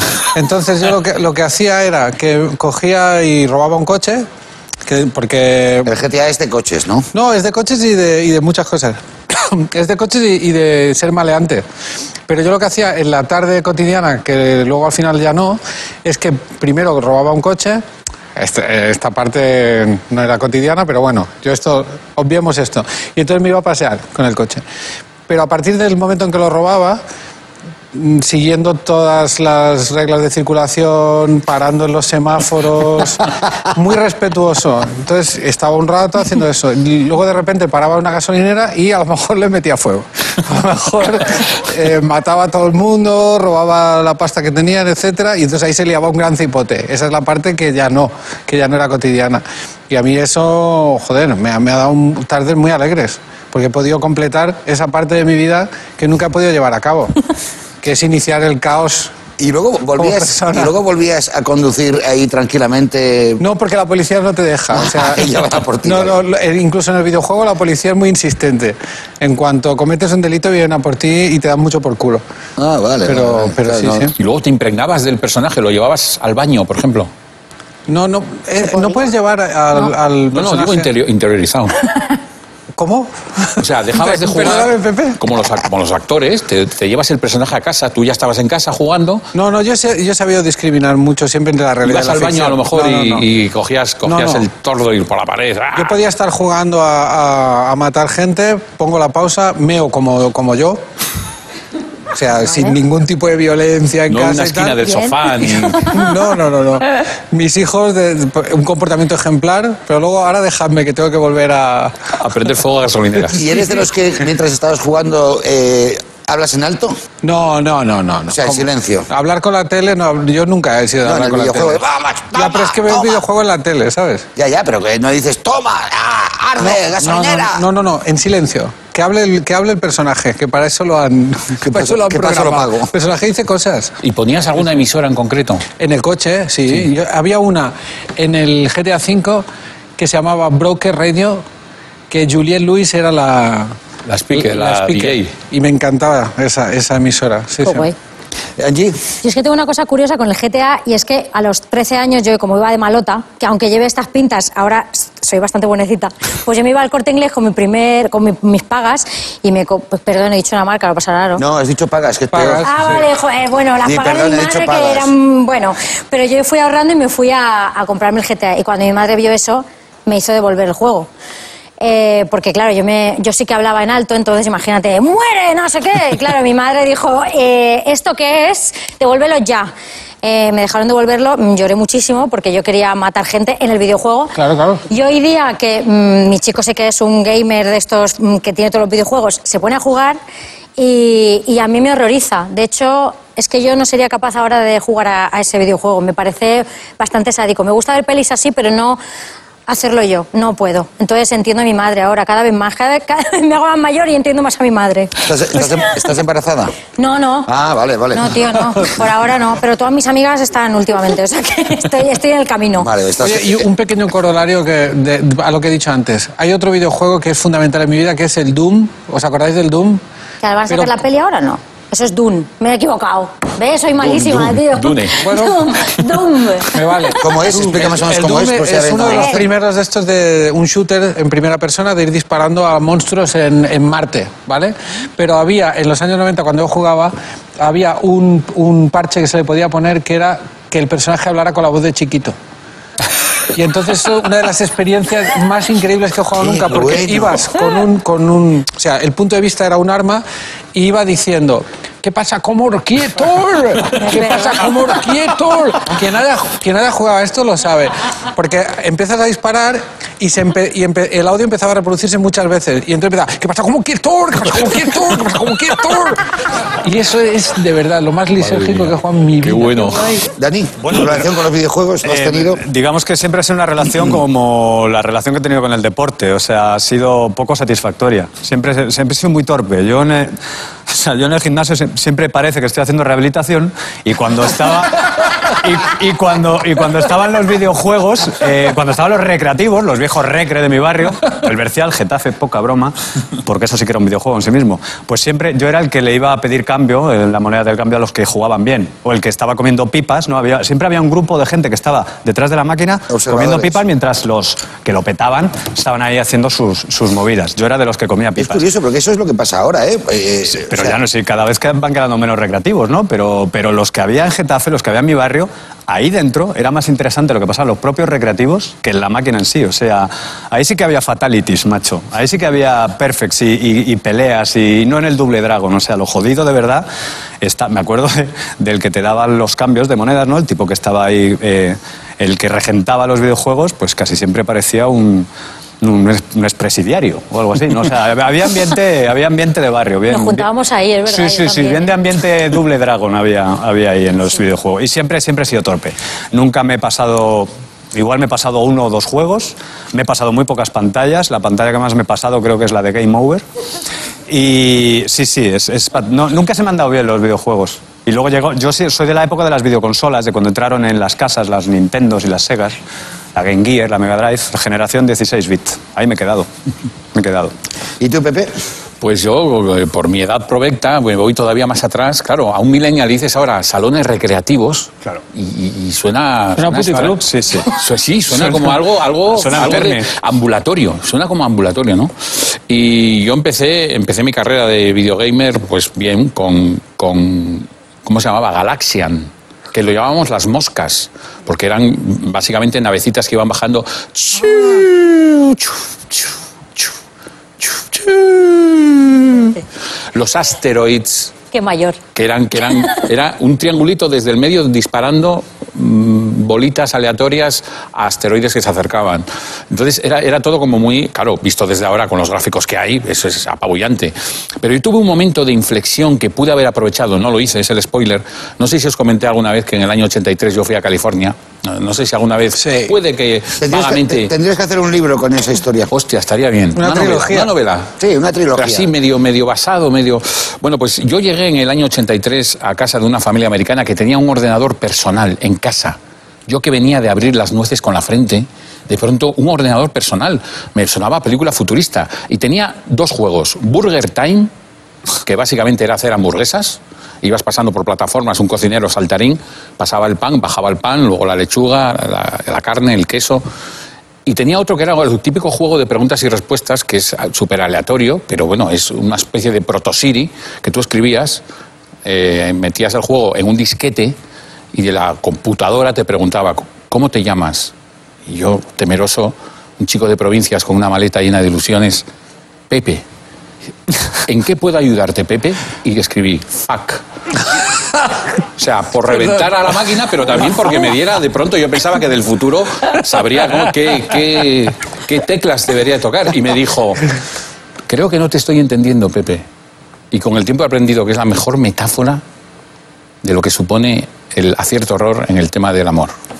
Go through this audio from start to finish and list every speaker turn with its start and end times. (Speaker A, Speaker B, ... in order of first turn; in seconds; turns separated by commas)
Speaker A: 0.3-4.3, Speaker A: 4.8-5.9, Speaker B: 5.8-7.1, Speaker A: 7.1-11.6, Speaker A: 12.3-17.8, Speaker A: 18.4-24.6, Speaker A: 25.3-27.0, Speaker A: 27.9-57.2, Speaker A: 57.8-59.1, Speaker B: 59.4-63.4, Speaker A: 60.0-60.7, Speaker A: 63.4-65.2, Speaker B: 64.7-66.2, Speaker A: 65.8-72.2, Speaker B: 72.6-74.1, Speaker A: 73.1-74.1, Speaker C: 74.2-77.1, Speaker A: 77.9-80.9, Speaker B: 78.7-79.0, Speaker C: 80.3-81.8, Speaker A: 82.8-85.2, Speaker C: 83.6-89.2, Speaker A: 89.3-93.2, Speaker C: 91.8-96.0, Speaker A: 94.0-94.5, Speaker A: 95.7-100.8, Speaker A: 102.1-112.0, Speaker C: 104.1-106.0, Speaker C: 112.2-113.4, Speaker B: 113.3-117.0, Speaker A: 117.2-121.8, Speaker B: 118.3-119.1, Speaker B: 121.0-123.2, Speaker A: 122.3-124.2, Speaker B: 124.3-127.6, Speaker A: 126.6-133.9, Speaker B: 131.6-132.9, Speaker C: 134.0-135.7, Speaker A: 135.8-139.4, Speaker A: 140.0-141.4, Speaker A: 142.1-143.7, Speaker C: 144.1-145.3, Speaker A: 144.3-147.9, Speaker D: 147.6-147.9, Speaker B: 148.6-149.0, Speaker D: 149.2-161.4, Speaker B: 161.4-162.7, Speaker A: 162.3-163.0, Speaker D: 162.6-171.1, Speaker B: 163.8-165.1, Speaker D: 171.8-179.7, Speaker D: 180.2-184.4, Speaker A: 184.3-184.8, Speaker D: 184.9-190.2, Speaker D: 190.8-199.0, Speaker D: 199.7-205.8, Speaker B: 205.2-206.7, Speaker D: 207.0-207.5, Speaker B: 207.5-208.5, Speaker D: 208.1-212.9, Speaker B: 212.8-213.7, Speaker A: 213.2-220.0, Speaker D: 220.4-227.1, Speaker A: 220.7-220.9, Speaker C: 224.0-225.2, Speaker A: 225.2-225.6, Speaker A: 226.6-242.3, Speaker B: 227.2-229.5, Speaker D: 229.0-229.4, Speaker A: 243.5-266.2, Speaker B: 246.4-247.4, Speaker D: 254.0-254.6, Speaker A: 266.8-270.2, Speaker C: 268.4-270.1, Speaker B: 270.4-272.6, Speaker E: 272.0-280.3, Speaker E: 280.9-308.6, Speaker B: 303.1-303.8, Speaker B: 308.4-311.0, Speaker E: 310.5-326.9, Speaker E: 327.4-335.3, Speaker E: 335.8-340.4, Speaker D: 340.1-341.9, Speaker E: 341.1-353.4, Speaker E: 354.3-362.8, Speaker E: 363.3-366.5, Speaker E: 367.1-367.5, Speaker B: 368.0-368.5, Speaker C: 369.0-396.9, Speaker A: 376.6-377.2, Speaker E: 377.1-377.7, Speaker E: 379.3-380.1, Speaker C: 397.6-399.6, Speaker C: 400.1-401.3, Speaker D: 401.5-402.0, Speaker C: 402.1-424.3, Speaker A: 422.6-422.9, Speaker B: 423.6-425.9, Speaker C: 425.9-427.9, Speaker A: 426.7-427.5, Speaker B: 428.0-428.9, Speaker C: 428.6-444.5, Speaker C: 445.2-453.4, Speaker C: 454.2-461.4, Speaker C: 462.0-464.1, Speaker C: 464.7-467.7, Speaker C: 468.2-472.1, Speaker C: 472.7-473.0, Speaker C: 474.2-477.0, Speaker C: 478.6-487.0, Speaker C: 487.9-489.4, Speaker C: 490.1-492.2, Speaker C: 493.2-496.1